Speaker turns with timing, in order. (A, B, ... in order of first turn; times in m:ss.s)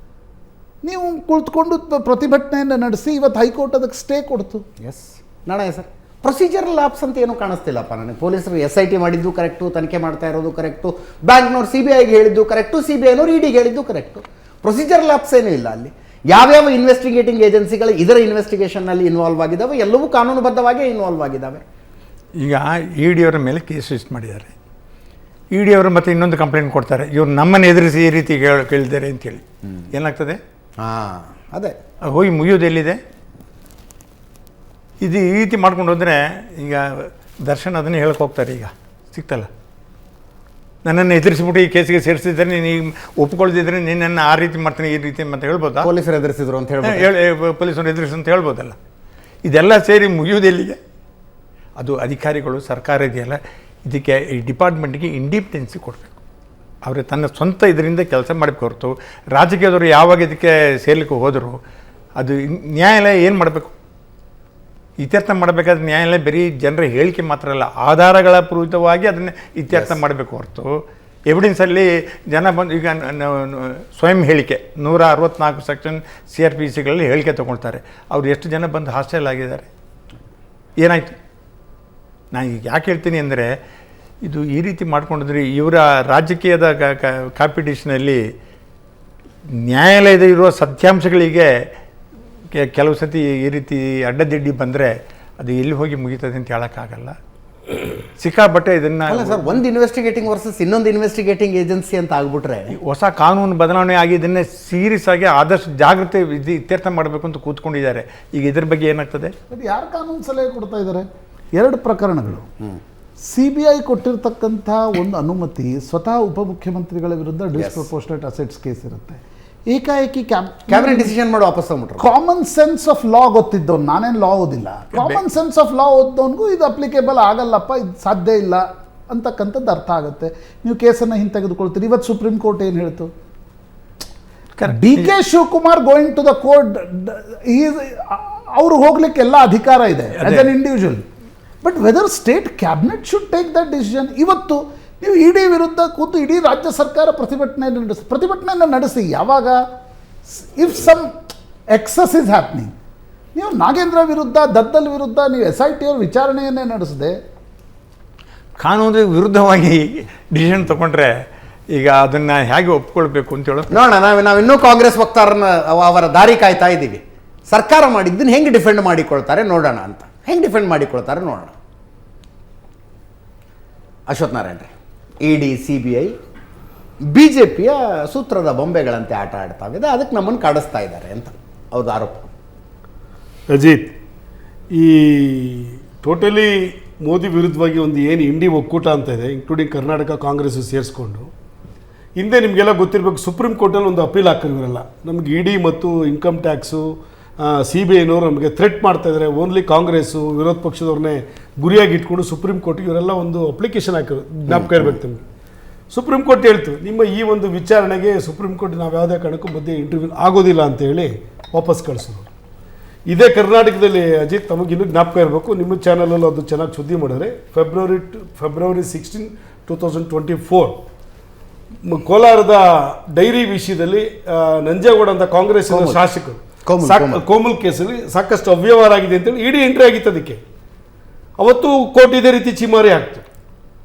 0:00.8-0:04.6 A
0:04.8-0:21.6 B
0:22.4-0:24.5 C
0:25.5-0:30.4 C
0:30.8-0:31.8 B
0:32.1-0:33.0 C
0:35.0-0:39.5 C
0:40.8-0:45.9 C
0:45.8-0:47.1 B
0:46.8-0:48.8 C
0:49.4-0:50.8 C
0:51.8-0:56.2 C
0:56.8-1:01.6 C
1:02.2-1:03.7 C
1:05.0-1:19.7 C
1:09.7-1:10.0 B
1:20.8-1:21.2 C
1:22.3-1:23.6 C
1:24.2-1:28.2 C
1:29.6-1:31.7 C
1:32.5-1:37.2 C
1:38.2-1:39.6 C
1:39.1-1:42.7 B
1:42.7-1:49.3 C
1:49.5-1:52.5 A
1:53.3-2:01.1 A
1:57.6-1:57.9 B
2:00.7-2:02.1 B
2:02.0-2:13.1 A
2:14.6-2:15.1 C
2:14.6-2:21.0 A
2:20.2-2:20.5 C
2:21.6-2:29.6 A
2:30.3-2:31.1 A
2:31.7-2:32.7 A
2:33.4-2:37.2 A
2:38.6-2:41.2 C
2:41.7-2:43.8 C
2:43.7-2:51.5 B
2:54.1-2:54.7 B
2:55.2-2:56.2 B
2:57.1-3:02.3 B
3:03.5-3:03.9 D
3:04.7-3:11.3 D
3:12.2-3:16.9 D
3:17.4-3:25.2 D
3:24.5-3:25.0 B
3:25.9-3:32.3 D
3:33.1-3:40.8 D
3:41.8-3:50.4 D
3:45.7-3:46.0 B
3:46.7-3:47.2 B
3:51.4-3:53.2 D